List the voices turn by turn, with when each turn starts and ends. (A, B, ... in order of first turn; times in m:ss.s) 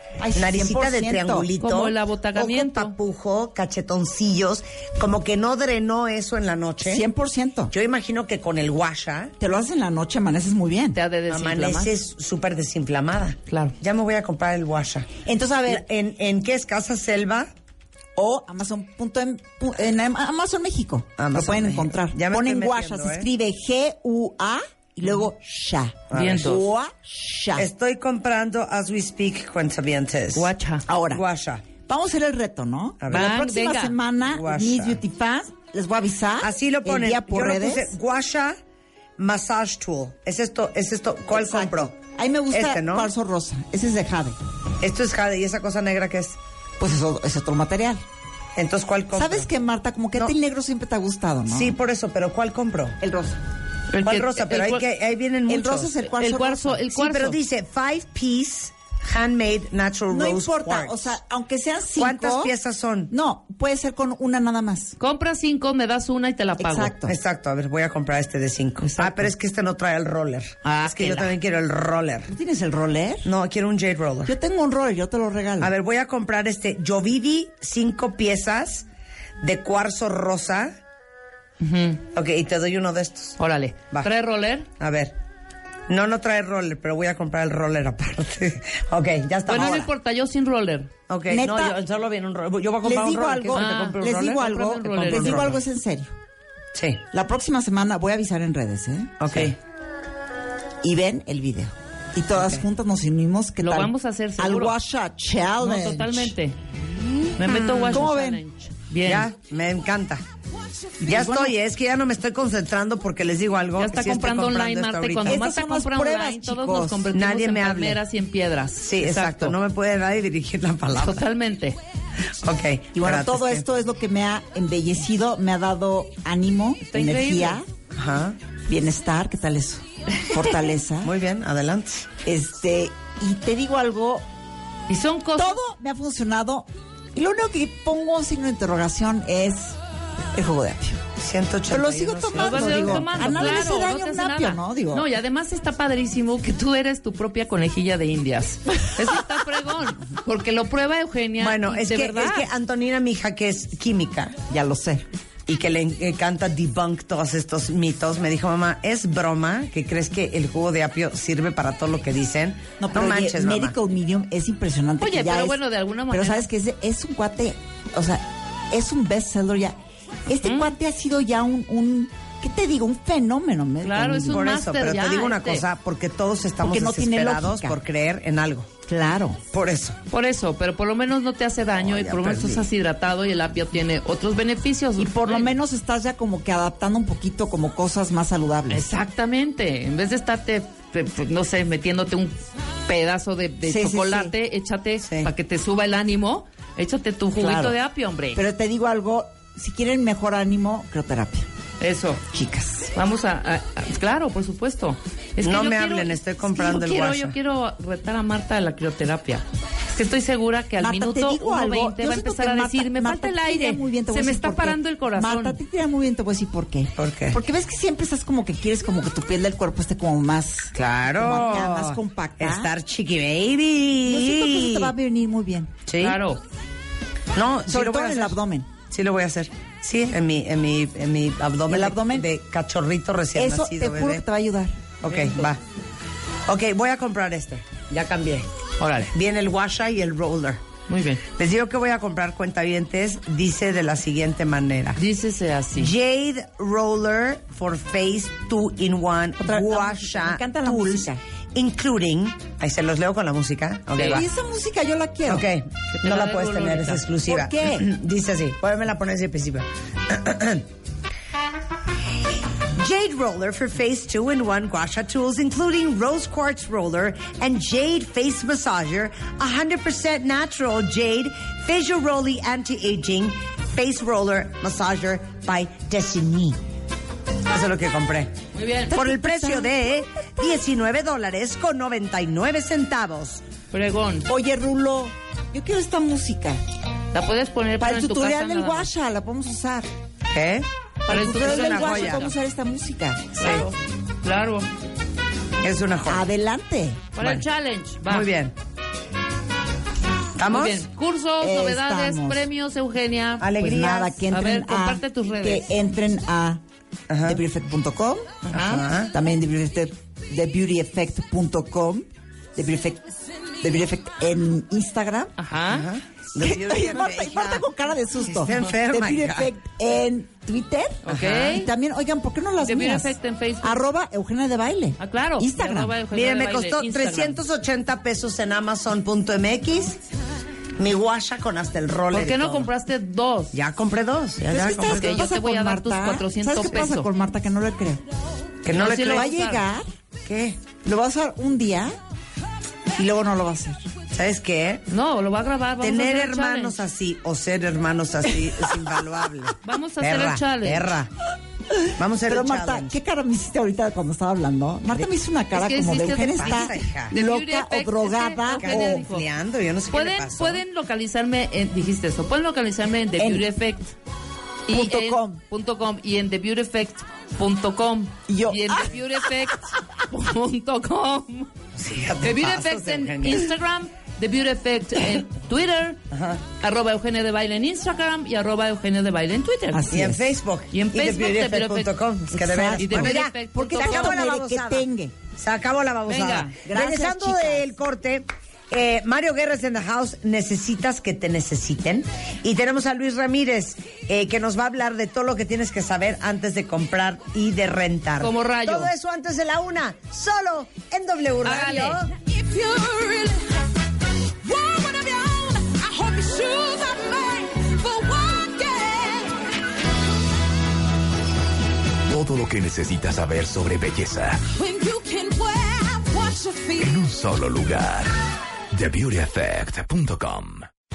0:00.2-0:01.5 A
0:00.4-0:07.0 B
0:01.6-0:03.0 C
0:06.8-0:07.7 A
0:07.7-0:09.3 B
0:09.4-0:11.0 A
0:10.9-0:11.9 C
0:11.3-0:15.1 B
0:13.5-0:13.8 C
0:15.2-0:15.8 A
0:15.7-0:17.5 B
0:18.2-0:27.7 A
0:21.2-0:23.3 B
0:26.1-0:26.6 B
0:26.1-0:26.6 C
0:27.6-0:30.5 B
0:30.4-0:30.8 C
0:30.9-0:31.2 A
0:31.1-0:31.6 B
0:31.8-0:38.0 A
0:33.0-0:33.3 B
0:33.1-0:34.0 C
0:34.2-0:35.0 B
0:36.4-0:38.6 B
0:39.2-0:41.9 B
0:41.3-0:44.4 A
0:42.5-0:43.1 B
0:44.8-0:46.4 B
0:46.8-0:48.0 A
0:48.6-0:49.5 B
0:49.1-0:51.8 A
0:51.5-0:53.0 B
0:53.0-0:53.4 A
0:53.9-0:54.8 C
0:54.0-0:55.9 B
0:55.5-0:56.9 A
0:56.2-0:57.4 C
0:56.9-1:01.1 B
1:00.1-1:02.5 A
1:02.0-1:03.1 B
1:03.1-1:05.0 A
1:05.0-1:06.9 C
1:06.6-1:07.2 A
1:07.1-1:12.3 B
1:08.8-1:09.3 C
1:10.6-1:11.3 C
1:12.3-1:13.3 A
1:13.2-1:14.3 B
1:14.3-1:15.7 A
1:15.6-1:18.9 B
1:19.4-1:20.8 B
1:21.6-1:22.0 C
1:22.1-1:23.4 B
1:23.4-1:24.7 C
1:24.8-1:25.2 B
1:25.9-1:29.9 B
1:29.5-1:30.9 C
1:31.1-1:35.6 B
1:31.3-1:31.8 A
1:32.8-1:36.2 A
1:33.5-1:35.6 C
1:36.7-1:37.0 B
1:37.1-1:39.4 A
1:39.2-1:39.6 B
1:40.8-1:46.4 A
1:42.4-1:42.6 B
1:43.6-1:44.8 C
1:45.6-1:46.6 C
1:47.0-1:48.1 B
1:47.4-1:49.3 C
1:47.9-1:48.4 A
1:49.0-1:50.2 B
1:51.0-1:51.6 A
1:51.0-1:55.4 B
1:53.8-1:59.6 C
1:55.3-1:57.1 A
1:57.1-1:58.0 B
1:58.8-2:01.2 B
2:01.0-2:01.8 C
2:02.4-2:03.6 B
2:02.9-2:07.7 A
2:06.8-2:07.6 C
2:07.9-2:08.4 B
2:08.7-2:11.1 A
2:11.0-2:12.1 B
2:12.2-2:14.3 A
2:14.9-2:15.6 C
2:15.4-2:19.8 A
2:20.3-2:21.0 A
2:21.2-2:23.6 B
2:21.7-2:25.1 A
2:22.4-2:32.5 C
2:31.4-2:34.4 B
2:34.5-2:35.1 A
2:35.5-2:43.8 B
2:42.8-2:54.5 A
2:45.0-2:46.5 C
2:50.4-2:50.7 C
2:53.8-2:55.6 C
2:54.3-2:58.7 B
2:56.6-2:57.8 A
2:58.9-2:59.4 A
2:59.5-3:00.0 B
3:00.1-3:05.5 C
3:01.8-3:02.6 A
3:05.0-3:08.9 A
3:08.7-3:18.4 C
3:13.6-3:14.3 A
3:15.0-3:15.3 B
3:17.4-3:17.8 A
3:18.4-3:21.5 A
3:21.8-3:22.2 C
3:22.3-3:22.9 A
3:23.0-3:35.6 C
3:25.4-3:27.4 B
3:30.8-3:42.7 A
3:37.0-3:37.4 B
3:40.8-3:44.9 B
3:44.0-3:45.8 A
3:45.9-3:46.2 B
3:46.0-3:46.4 C
3:47.3-3:48.4 B
3:47.7-3:48.7 A
3:48.9-3:54.2 B
3:51.7-3:52.3 A
3:53.4-3:54.8 A
3:55.0-3:55.6 B
3:55.1-3:55.4 C
3:56.5-3:58.5 B
3:58.8-3:59.1 C
3:59.1-4:00.6 B
4:00.9-4:01.2 C
4:01.2-4:05.0 B
4:05.0-4:05.9 C
4:05.8-4:14.3 B
4:09.4-4:11.2 A
4:13.9-4:14.2 C
4:14.0-4:15.5 A
4:15.3-4:20.7 B
4:16.0-4:17.0 C
4:17.3-4:17.9 A
4:22.8-4:36.6 B
4:37.4-4:38.4 B
4:38.5-4:39.0 C
4:38.9-4:39.9 A
4:38.9-4:43.4 B
4:43.7-4:44.3 C
4:44.3-4:46.6 A
4:47.1-4:48.9 C
4:47.8-4:49.9 A
4:50.3-4:50.7 B
4:51.0-4:53.4 A
4:51.1-4:52.3 C
4:51.2-4:52.2 B
4:53.4-4:54.7 C
4:53.4-4:53.7 B
4:55.6-4:56.2 B
4:56.1-4:57.1 A
4:57.2-4:58.3 C
4:57.2-4:57.4 B
4:58.1-4:58.5 B
5:00.4-5:00.9 B
5:00.5-5:05.7 C
5:01.4-5:02.5 A
5:03.4-5:04.2 B
5:03.6-5:06.6 A
5:07.1-5:07.4 B
5:07.2-5:08.4 A
5:08.4-5:08.9 C
5:08.5-5:09.1 B
5:09.1-5:13.1 A
5:13.6-5:15.4 A
5:15.4-5:15.9 C
5:15.7-5:17.7 B
5:16.4-5:26.0 A
5:18.2-5:19.5 B
5:21.1-5:21.7 C
5:21.1-5:21.6 B
5:22.6-5:23.8 C
5:25.0-5:27.4 C
5:26.1-5:30.0 B
5:30.8-5:32.7 B
5:32.1-5:33.5 C
5:33.5-5:35.3 B
5:34.5-5:38.0 A
5:34.9-5:37.1 C
5:38.6-5:39.3 B
5:38.7-5:39.6 C
5:38.8-5:39.9 A
5:40.3-5:40.6 B
5:40.8-5:41.9 A
5:43.0-5:43.8 A
5:44.1-5:44.9 B
5:44.9-5:46.8 C
5:45.8-5:51.1 B
5:49.6-5:50.9 C
5:51.9-5:52.9 B
5:52.3-5:59.0 A
5:55.5-5:59.3 C
5:56.1-5:57.1 B
5:58.6-6:00.6 B
5:59.9-6:03.9 C
6:03.2-6:03.5 A
6:04.7-6:11.5 C
6:04.7-6:05.4 A
6:08.3-6:09.6 A
6:11.8-6:13.5 B
6:12.2-6:16.0 C
6:16.1-6:16.4 B
6:16.6-6:20.0 C
6:19.7-6:20.3 A
6:19.9-6:24.8 B
6:20.7-6:21.9 C
6:22.3-6:25.2 A
6:22.8-6:24.3 C
6:25.4-6:42.1 B
6:26.1-6:26.6 C
6:26.6-6:27.7 A
6:38.2-6:38.9 C
6:41.4-6:42.0 C
6:42.1-6:49.5 D
6:52.1-6:54.4 E
6:54.4-6:57.0 D
6:56.8-6:58.2 E
6:58.7-7:00.7 E